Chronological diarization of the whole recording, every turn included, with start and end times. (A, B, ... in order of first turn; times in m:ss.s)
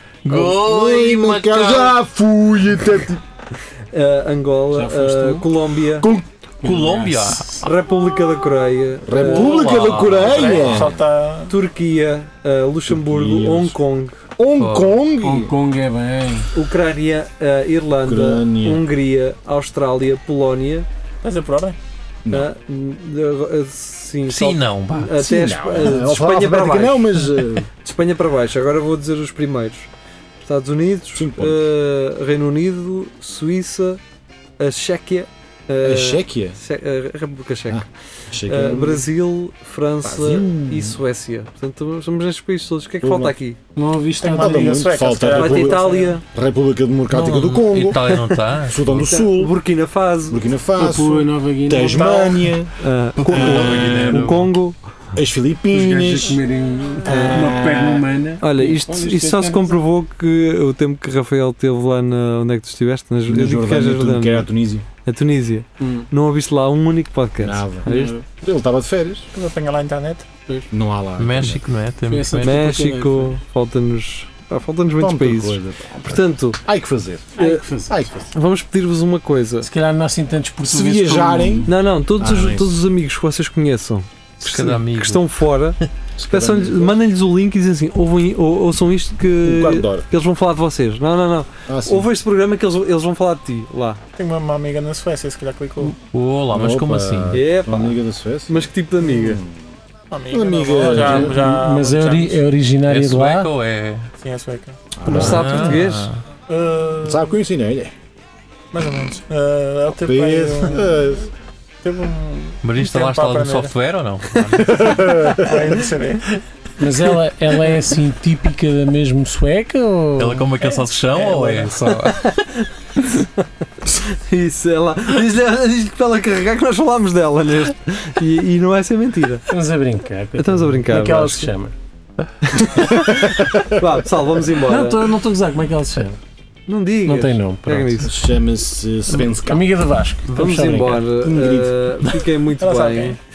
0:00.2-0:02.0 A
0:00.3-0:03.2 B
0:03.9-0:06.1 C
0:04.7-0:07.6 D
0:06.6-0:07.6 A
0:07.6-0:09.6 C
0:09.0-0:11.0 B
0:09.3-0:10.9 A
0:10.3-0:11.5 E
0:11.5-0:14.2 C
0:12.9-0:13.8 B
0:14.4-0:15.5 B
0:14.6-0:15.0 A
0:15.2-0:16.5 D
0:16.5-0:20.8 C
0:18.0-0:18.8 B
0:21.2-0:21.8 E
0:22.2-0:22.5 B
0:22.3-0:29.9 C
0:24.3-0:25.2 A
0:25.2-0:27.7 B
0:30.4-0:34.0 C
0:31.1-0:31.6 B
0:34.6-0:37.9 C
0:35.8-0:36.6 B
0:37.7-0:39.1 B
0:38.4-0:43.6 C
0:40.0-0:41.0 B
0:43.0-0:43.4 B
0:43.7-0:44.8 D
0:44.2-0:46.2 E
0:44.4-0:49.6 B
0:45.3-0:46.2 C
0:47.1-0:49.1 A
0:48.9-0:50.4 C
0:50.3-0:52.7 B
0:50.8-0:52.4 D
0:52.8-0:54.8 C
0:53.2-0:54.5 A
0:53.2-0:54.3 B
0:55.1-0:56.4 B
0:55.7-0:59.8 D
0:57.0-0:58.0 B
0:57.1-0:57.5 C
0:58.4-1:04.5 C
1:03.3-1:04.8 B
1:05.0-1:08.2 C
1:07.4-1:09.3 B
1:09.3-1:10.7 E
1:10.7-1:11.6 B
1:11.2-1:12.7 A
1:12.1-1:13.4 D
1:12.4-1:16.6 C
1:15.0-1:18.3 B
1:17.4-1:17.9 E
1:17.4-1:17.6 C
1:18.3-1:19.7 C
1:19.6-1:21.7 D
1:20.6-1:22.7 B
1:21.6-1:25.8 C
1:24.4-1:25.2 A
1:26.2-1:27.0 B
1:26.3-1:34.0 C
1:29.4-1:30.0 B
1:31.7-1:32.1 B
1:34.2-1:36.0 E
1:36.0-1:37.4 A
1:36.5-1:39.6 B
1:37.3-1:39.4 C
1:40.1-1:42.4 E
1:40.3-1:41.4 B
1:40.8-1:43.5 D
1:42.8-1:44.1 A
1:44.2-1:44.8 E
1:44.9-1:45.6 B
1:45.0-1:45.7 D
1:45.1-1:46.1 C
1:45.1-1:46.2 A
1:46.5-1:47.3 E
1:47.0-1:47.9 B
1:48.7-1:51.1 E
1:50.0-1:51.3 B
1:51.8-1:53.7 E
1:52.6-1:54.9 A
1:54.7-1:55.5 B
1:54.8-1:56.3 E
1:56.8-2:00.5 D
2:00.2-2:02.3 A
2:01.1-2:01.7 E
2:01.8-2:09.5 C
2:09.5-2:11.7 D
2:10.4-2:11.5 C
2:12.4-2:15.1 C
2:13.3-2:13.8 B
2:14.5-2:16.2 D
2:16.7-2:18.1 C
2:17.1-2:18.1 D
2:18.0-2:19.8 B
2:19.1-2:21.0 D
2:20.3-2:23.2 C
2:21.0-2:21.8 B
2:22.6-2:23.2 E